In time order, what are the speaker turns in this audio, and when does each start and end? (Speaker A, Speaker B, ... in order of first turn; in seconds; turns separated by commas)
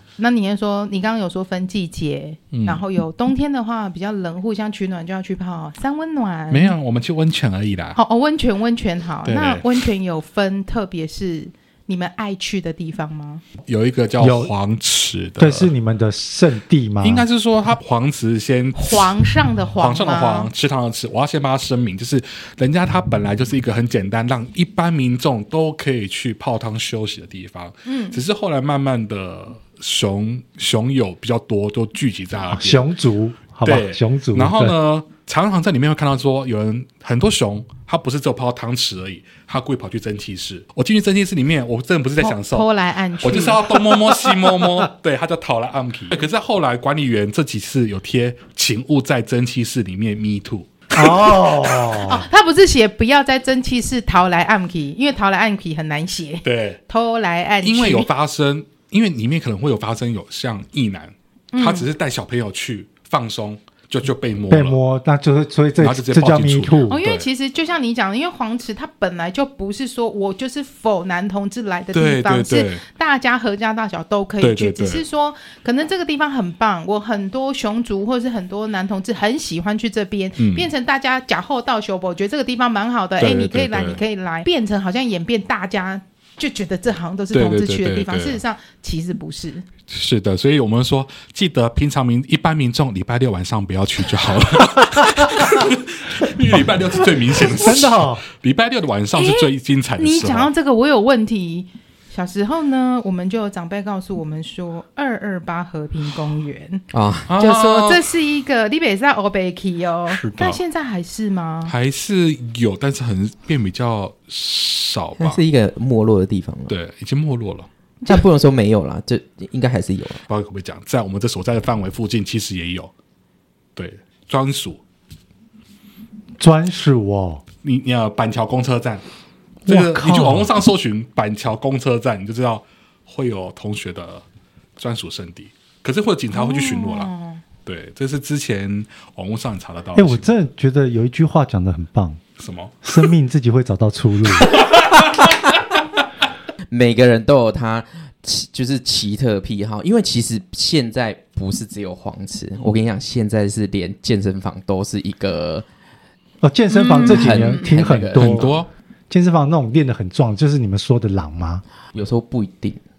Speaker A: 0.2-6.8, Speaker B: 2.5-2.8, Speaker B: 6.5-8.0, Speaker A: 8.0-13.4, Speaker B: 9.2-9.8, Speaker B: 13.7-15.7, Speaker C: 14.2-14.5, Speaker C: 15.4-17.3, Speaker B: 17.0-19.3, Speaker A: 18.8-20.5, Speaker B: 19.8-32.9, Speaker A: 27.9-28.2, Speaker C: 32.5-34.8, Speaker B: 33.6-42.7, Speaker A: 42.2-43.8, Speaker B: 43.2-50.8, Speaker C: 50.9-52.3, Speaker A: 52.0-58.1, Speaker B: 56.4-56.8, Speaker B: 57.6-64.8, Speaker A: 61.5-61.9, Speaker C: 64.5-67.0, Speaker B: 65.8-67.3, Speaker A: 66.9-89.7, Speaker B: 71.9-72.8, Speaker B: 74.4-75.0, Speaker B: 80.4-80.7, Speaker B: 83.2-84.0, Speaker B: 87.3-88.4, Speaker B: 89.9-100.5, Speaker C: 97.4-98.2, Speaker A: 99.2-106.8, Speaker D: 106.9-107.3, Speaker B: 107.3-108.0, Speaker A: 107.4-111.7, Speaker B: 110.1-110.6, Speaker B: 111.7-115.4, Speaker D: 115.2-116.8, Speaker B: 116.7-117.7, Speaker D: 118.1-120.2, Speaker B: 120.3-122.9, Speaker B: 123.8-124.8, Speaker C: 126.4-127.4, Speaker B: 127.6-129.0, Speaker B: 129.7-134.2, Speaker C: 129.7-130.5, Speaker B: 134.8-137.1, Speaker A: 136.3-137.4, Speaker B: 137.7-140.3, Speaker C: 139.9-142.2, Speaker B: 142.4-143.0, Speaker C: 142.8-144.6, Speaker B: 144.4-145.6, Speaker D: 146.7-155.7, Speaker C: 156.4-158.5, Speaker A: 156.7-157.6, Speaker D: 157.0-158.5, Speaker B: 158.1-158.7, Speaker C: 159.1-161.6, Speaker D: 161.9-162.8